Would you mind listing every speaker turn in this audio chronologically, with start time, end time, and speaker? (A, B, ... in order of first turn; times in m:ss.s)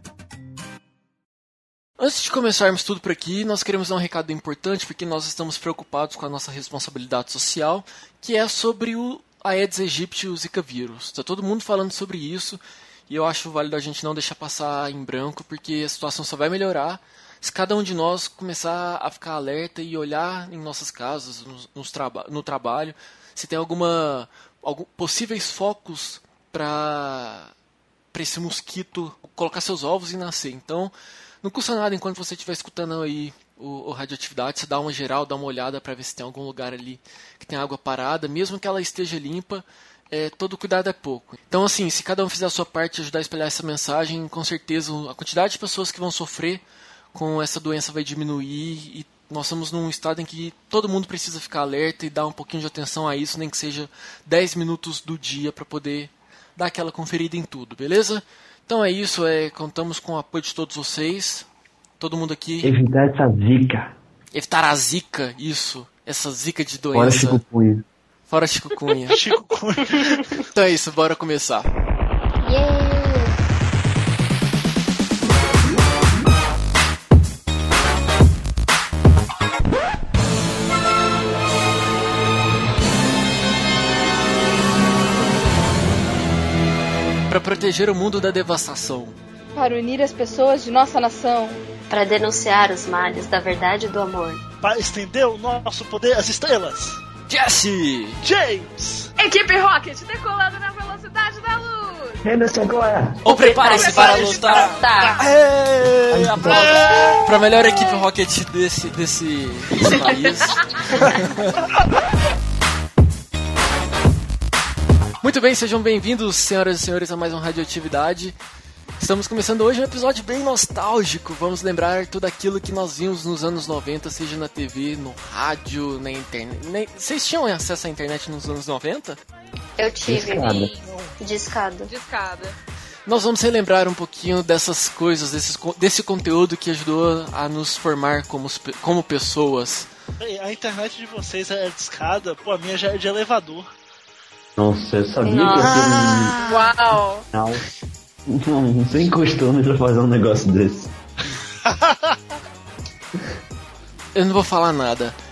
0:02.0-0:27.5 A
0:28.1-0:46.6 A
0:47.1-1:01.5 A
1:02.0-1:02.7 A
1:02.6-1:04.0 B
1:04.3-1:07.4 A
1:06.9-1:07.8 B
1:08.3-1:09.2 A
1:09.1-1:10.2 C
1:10.5-1:11.7 A
1:12.5-1:13.0 D
1:27.3-1:29.2 A
1:29.6-1:31.6 E
1:31.9-1:34.4 D
1:34.6-1:37.0 C
1:37.3-1:38.2 A
1:38.2-1:39.1 C
1:39.2-1:42.2 F
1:42.2-1:43.3 B
1:43.2-1:44.8 A
1:43.3-1:45.3 D
1:43.6-1:44.4 F
1:43.8-1:47.3 C
1:46.1-1:46.7 B
1:46.4-1:51.6 A
1:51.1-1:51.8 C
1:55.2-1:58.4 A
1:59.0-2:09.2 A
2:09.8-2:11.9 D
2:10.0-2:10.7 B
2:10.8-2:11.2 C
2:11.9-2:12.6 F
2:13.1-2:19.9 A
2:20.2-2:23.7 C
2:24.6-2:26.4 B
2:25.2-2:26.1 D
2:25.4-2:26.8 C
2:26.5-2:27.2 F
2:27.3-2:27.6 B
2:28.3-2:30.9 B
2:31.6-2:32.2 C
2:34.2-2:35.2 A